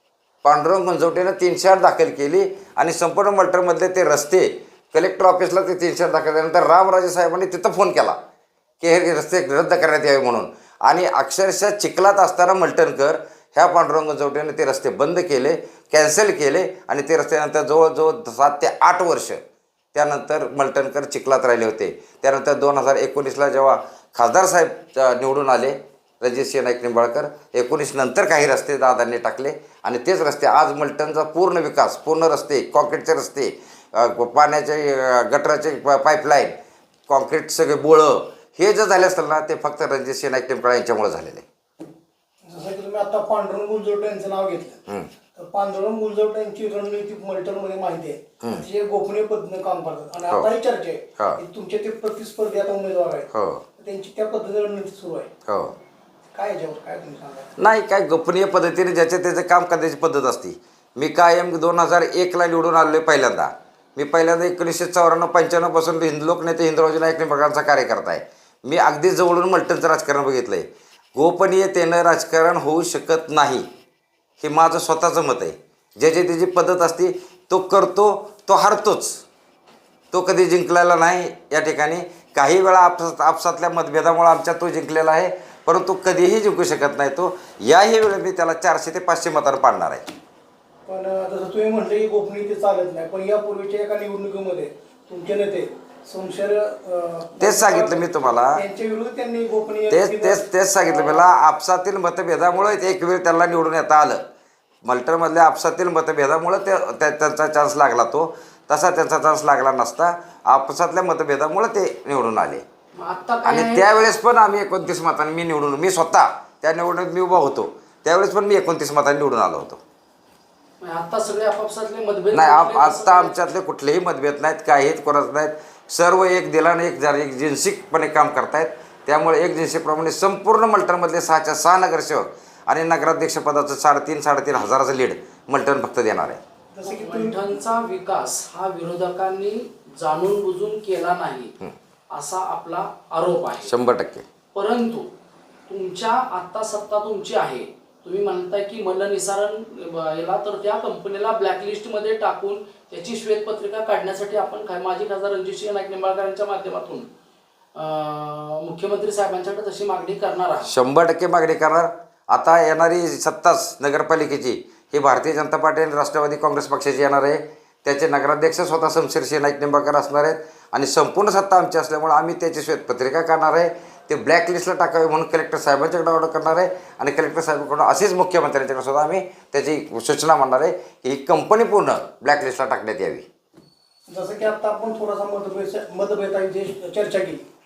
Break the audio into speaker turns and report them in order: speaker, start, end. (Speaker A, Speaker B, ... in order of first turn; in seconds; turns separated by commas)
Speaker A: 0.4-8.2, Speaker A: 8.8-19.4, Speaker A: 19.9-36.5, Speaker A: 37.1-41.4, Speaker B: 42.4-44.8, Speaker B: 45.4-55.3, Speaker A: 53.3-53.6, Speaker A: 55.5-55.7, Speaker B: 56.3-57.5, Speaker A: 57.6-73.7, Speaker A: 74.4-79.2, Speaker A: 80.1-90.0, Speaker B: 90.9-101.2, Speaker A: 97.4-98.6, Speaker A: 99.9-104.2, Speaker A: 104.8-112.6, Speaker C: 112.9-114.1, Speaker A: 113.4-119.8, Speaker C: 120.8-123.3, Speaker A: 122.3-136.4, Speaker B: 136.7-137.5, Speaker C: 136.8-141.5, Speaker C: 142.1-143.7, Speaker A: 143.6-144.2, Speaker C: 144.5-145.1, Speaker C: 145.7-157.1, Speaker C: 157.7-160.7, Speaker A: 160.7-183.2, Speaker B: 184.1-187.4